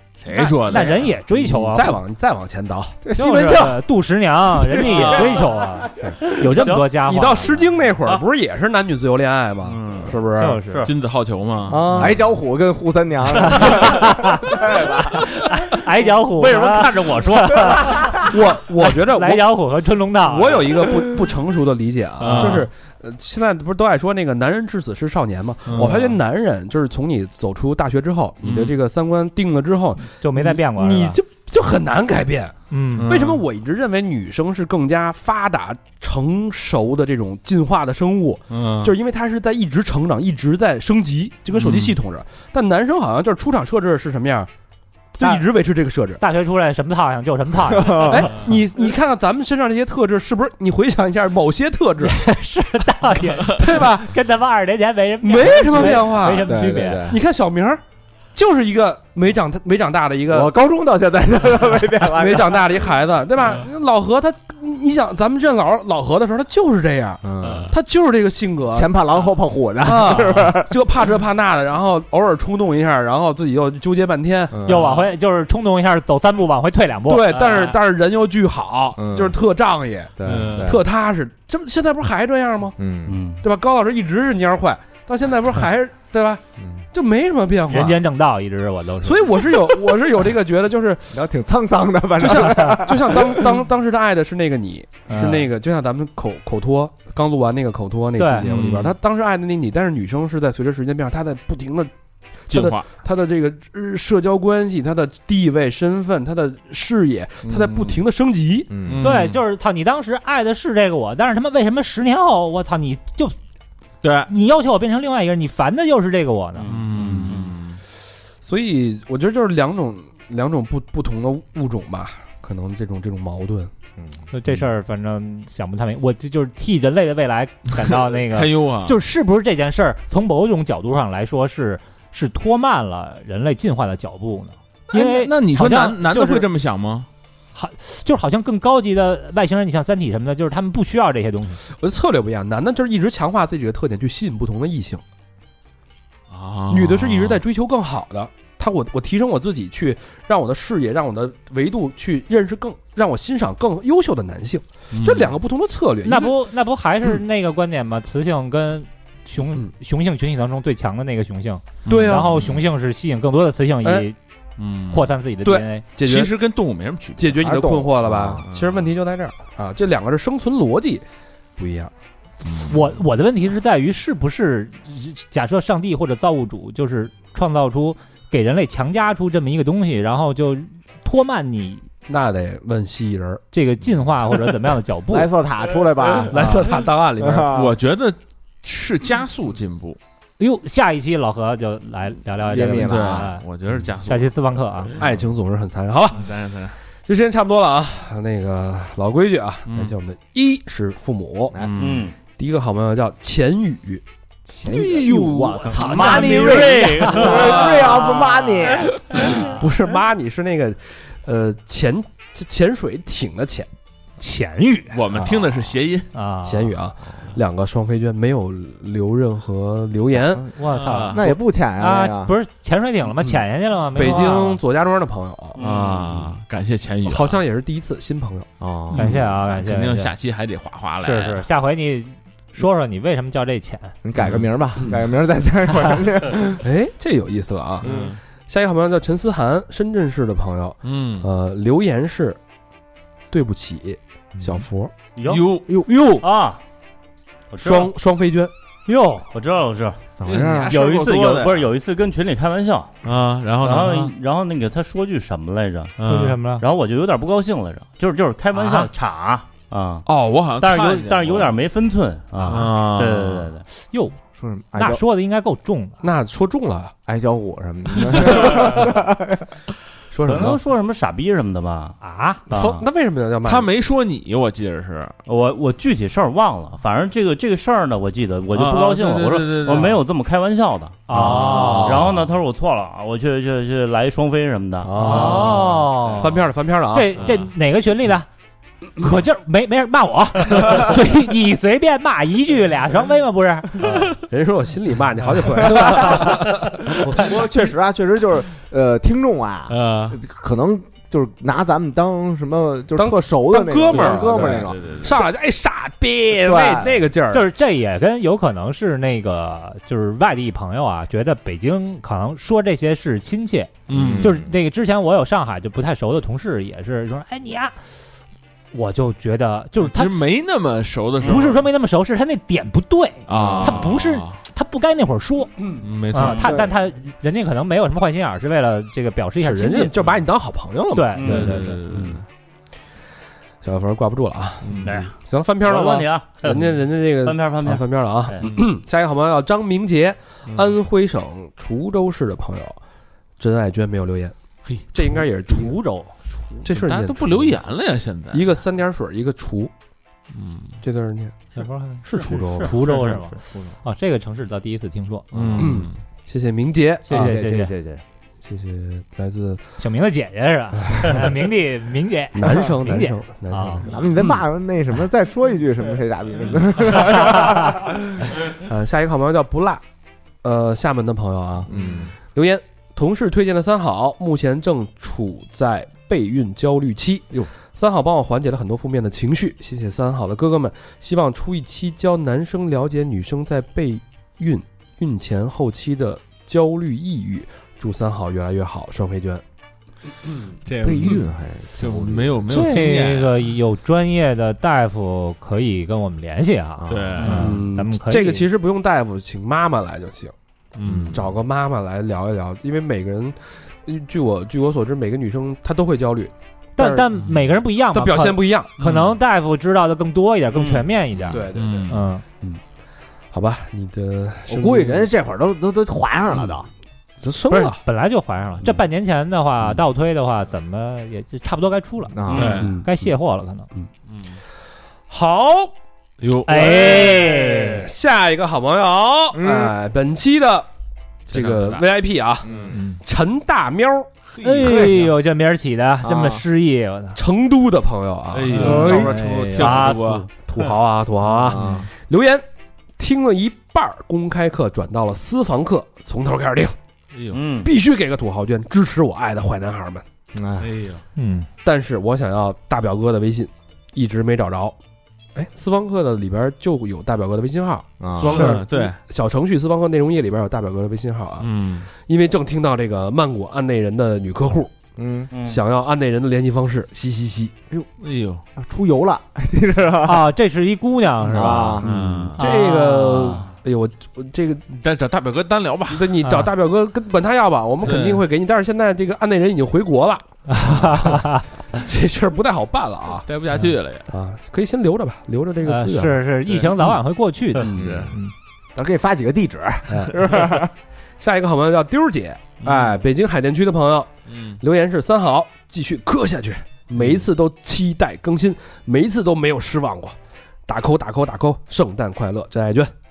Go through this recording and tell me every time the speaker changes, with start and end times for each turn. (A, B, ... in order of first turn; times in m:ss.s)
0:00.2-0:01.8 A
0:00.3-0:02.0 B
0:01.6-0:03.0 C
0:03.0-0:03.8 D
0:03.1-0:07.7 B
0:04.5-0:06.2 D
0:04.8-0:05.5 A
0:06.5-0:06.8 E
0:07.0-0:10.6 C
0:09.7-0:10.2 A
0:10.4-0:10.9 B
0:10.8-0:11.8 A
0:11.7-0:12.2 C
0:12.0-0:15.3 D
0:13.4-0:21.0 B
0:16.2-0:18.0 E
0:18.0-0:19.5 C
0:20.2-0:44.5 C
0:22.2-0:22.7 A
0:25.7-0:26.2 A
0:28.4-0:28.7 A
0:30.1-0:31.2 B
0:32.7-0:33.1 B
0:33.0-0:33.4 A
0:38.5-0:38.9 A
0:41.5-0:42.0 A
0:45.2-0:46.2 C
0:46.2-0:48.5 B
0:47.8-0:48.2 D
0:48.0-0:52.2 C
0:52.0-0:57.2 B
0:53.5-0:54.1 C
0:55.2-0:56.5 C
0:56.4-0:57.2 D
0:57.0-0:57.8 C
0:58.3-1:00.5 C
1:00.3-1:02.7 D
1:02.2-1:08.9 C
1:07.2-1:07.7 D
1:08.7-1:10.7 D
1:09.8-1:14.6 C
1:14.5-1:14.9 D
1:14.6-1:17.4 B
1:14.7-1:15.1 A
1:17.1-1:22.8 C
1:19.0-1:19.4 D
1:20.2-1:20.8 D
1:20.2-1:20.8 A
1:22.8-1:23.2 D
1:23.1-1:23.4 E
1:23.4-1:28.0 C
1:27.7-1:29.7 B
1:29.0-1:31.2 C
1:31.1-1:33.4 D
1:32.2-1:41.9 C
1:35.1-1:35.5 B
1:38.2-1:38.5 B
1:38.4-1:38.9 A
1:42.5-1:48.7 C
1:42.5-1:42.9 A
1:47.4-1:48.0 D
1:48.7-1:49.1 D
1:48.9-1:49.4 A
1:49.0-1:53.4 B
1:54.0-1:54.3 A
1:54.3-1:56.7 B
1:56.6-1:57.6 E
1:56.7-1:57.8 A
1:58.4-2:03.7 C
2:04.3-2:16.5 B
2:08.1-2:09.0 A
2:14.9-2:17.1 A
2:17.6-2:21.6 B
2:21.8-2:25.0 C
2:26.3-2:27.4 A
2:26.7-2:36.4 C
2:34.9-2:35.4 A
2:36.0-2:44.2 B
2:41.9-2:42.4 C
2:41.9-2:42.6 A
2:43.8-2:44.1 C
2:44.6-2:45.1 A
2:44.9-2:45.9 B
2:45.4-2:46.3 C
2:46.0-2:47.4 A
2:47.2-2:51.0 C
2:47.4-2:48.4 D
2:48.5-2:48.9 A
2:51.6-2:51.9 C
2:52.4-2:52.8 A
2:52.7-3:01.9 B
3:02.1-3:03.4 C
3:03.5-3:05.3 B
3:05.1-3:06.7 D
3:06.3-3:07.6 C
3:07.2-3:07.8 D
3:07.5-3:10.0 A
3:10.4-3:13.4 B
3:12.5-3:13.3 D
3:12.8-3:14.3 A
3:14.0-3:15.0 B
3:15.0-3:16.3 C
3:16.1-3:16.8 A
3:17.1-3:21.6 C
3:21.6-3:22.1 A
3:21.8-3:22.2 E
3:22.4-3:24.0 C
3:24.5-3:29.3 D
3:24.7-3:28.2 A
3:25.7-3:27.9 E
3:26.8-3:27.5 B
3:28.3-3:29.6 B
3:29.2-3:33.7 C
3:34.2-3:36.7 B
3:34.9-3:36.1 A
3:36.4-3:40.5 C
3:40.6-3:44.6 B
3:40.7-3:41.2 A
3:41.1-3:42.3 D
3:43.9-3:45.6 C
3:45.6-3:46.4 E
3:45.6-3:47.4 A
3:47.1-3:48.5 C
3:48.6-3:49.2 D
3:48.9-3:50.1 B
3:49.0-3:51.5 A
3:51.0-3:53.9 B
3:54.0-3:56.6 D
3:54.2-3:54.4 A
3:56.6-3:57.9 C
3:57.8-3:58.2 A
3:57.8-3:58.1 D
3:58.5-4:02.4 C
4:00.8-4:01.3 A
4:03.3-4:04.9 C
4:05.2-4:05.6 E
4:05.3-4:05.7 A
4:05.9-4:06.2 B
4:06.2-4:06.6 E
4:07.5-4:07.9 E
4:07.6-4:08.5 C
4:08.9-4:09.3 B
4:09.3-4:10.0 E
4:10.2-4:10.7 D
4:10.3-4:11.7 A
4:10.7-4:12.9 E
4:13.0-4:14.1 A
4:13.6-4:16.0 E
4:16.0-4:16.4 A
4:16.0-4:16.6 B
4:16.6-4:20.1 E
4:18.5-4:18.9 B
4:20.1-4:21.5 A
4:20.6-4:23.6 E
4:22.4-4:23.5 A
4:23.8-4:24.2 B
4:24.4-4:25.0 D
4:24.7-4:26.0 B
4:26.0-4:26.9 C
4:27.1-4:29.4 D
4:28.1-4:28.9 A
4:30.1-4:30.6 C
4:30.3-4:32.0 E
4:32.0-4:32.4 B
4:32.5-4:33.7 C
4:32.5-4:32.8 E
4:33.4-4:35.2 A
4:35.3-4:45.9 E
4:38.5-4:40.0 A
4:41.1-4:42.1 B
4:41.2-4:42.0 C
4:44.8-4:47.1 C
4:45.0-4:48.3 B
4:49.0-4:54.1 B
4:54.3-4:57.1 C
4:55.6-4:56.4 B
4:57.0-5:05.1 D
4:59.7-5:00.2 A
5:03.0-5:07.5 C
5:03.9-5:05.2 A
5:06.4-5:07.0 D
5:07.3-5:17.8 B
5:13.9-5:14.5 A
5:13.9-5:14.4 D
5:18.7-5:20.3 B
5:19.8-5:21.6 A
5:21.2-5:29.9 B
5:23.3-5:24.4 A
5:23.3-5:23.9 D
5:25.8-5:26.7 A
5:26.2-5:26.5 E
5:26.4-5:26.7 D
5:29.4-5:31.1 C
5:30.9-5:31.8 B
5:31.2-5:32.2 E
5:31.2-5:32.2 A
5:33.6-5:42.8 C
5:34.6-5:34.9 D
5:34.7-5:34.9 A
5:34.8-5:38.5 E
5:40.5-5:40.7 A
5:43.4-5:44.4 C
5:44.9-5:45.8 C
5:45.5-5:46.2 B
5:46.6-5:47.6 C
5:46.7-5:48.5 A
5:48.3-5:49.7 C
5:50.3-5:50.8 A
5:50.8-5:51.5 C
5:51.6-5:55.3 B
5:52.0-5:52.8 C
5:55.3-5:55.8 D
5:55.3-5:56.0 A
5:55.6-5:57.5 C
5:57.1-5:57.7 B
5:57.1-5:58.0 D
5:58.4-5:59.6 C
5:59.8-6:03.9 B
6:02.4-6:04.4 C
6:03.8-6:08.0 D
6:07.2-6:07.6 B
6:08.5-6:09.8 C
6:10.4-6:11.7 C
6:11.7-6:12.1 D
6:12.3-6:29.4 C
6:30.6-6:31.3 A
6:30.8-6:32.6 D
6:31.8-6:33.5 A
6:32.5-6:38.5 B
6:36.8-6:37.4 D
6:36.9-6:37.6 A
6:37.3-6:40.3 C
6:40.8-6:41.3 A
6:40.8-6:41.2 D
6:41.1-6:47.1 C
6:46.8-6:52.2 B
6:47.2-6:47.5 A
6:47.9-6:48.7 C
6:48.8-6:49.2 A
6:50.5-6:50.9 E
6:51.3-6:51.9 C
6:51.5-6:52.0 A
6:53.3-6:55.1 C
6:54.5-6:56.7 D
6:57.2-6:57.8 C
6:57.5-7:03.7 B
7:02.1-7:02.6 D
7:02.3-7:02.7 E
7:02.3-7:02.8 A
7:02.6-7:02.9 C
7:04.1-7:04.4 A
7:05.1-7:05.7 C
7:06.2-7:07.2 A
7:06.4-7:07.9 B
7:06.6-7:10.7 C
7:09.3-7:09.7 D
7:11.3-7:11.8 A
7:11.3-7:12.5 C
7:12.4-7:12.8 D
7:12.7-7:13.0 B
7:13.0-7:14.1 C
7:14.3-7:15.1 A
7:14.4-7:17.2 B
7:16.0-7:16.4 D
7:17.2-7:19.1 C
7:18.3-7:20.7 A
7:18.5-7:19.8 B
7:19.6-7:20.3 E
7:19.8-7:22.4 C
7:21.3-7:21.9 D
7:23.0-7:26.8 C
7:27.1-7:27.4 A
7:27.3-7:27.7 E
7:27.6-7:30.0 C
7:30.3-7:30.7 D
7:30.6-7:31.0 A
7:31.2-7:31.5 B
7:31.6-7:34.8 C
7:35.4-7:44.7 C
7:38.0-7:38.6 D
7:38.2-7:39.0 A
7:41.4-7:41.9 A
7:45.0-7:45.3 D
7:45.3-7:45.6 E
7:45.4-7:47.5 C
7:48.0-7:48.4 A
7:48.6-7:50.3 D
7:50.0-7:53.5 B
7:51.3-7:51.9 D
7:51.8-7:52.4 A
7:51.9-7:54.7 C
7:54.7-7:56.2 A
7:55.9-8:03.3 C
7:56.2-7:56.5 B
7:57.8-7:58.2 A
8:00.5-8:01.4 B
8:03.2-8:04.1 A
8:04.1-8:06.2 C
8:05.6-8:08.3 B
8:06.5-8:07.0 A
8:07.6-8:08.1 A
8:07.8-8:08.1 D
8:08.8-8:10.7 D
8:09.9-8:10.1 C
8:11.2-8:20.2 C
8:12.6-8:13.0 A
8:14.3-8:14.6 A
8:20.7-8:22.9 C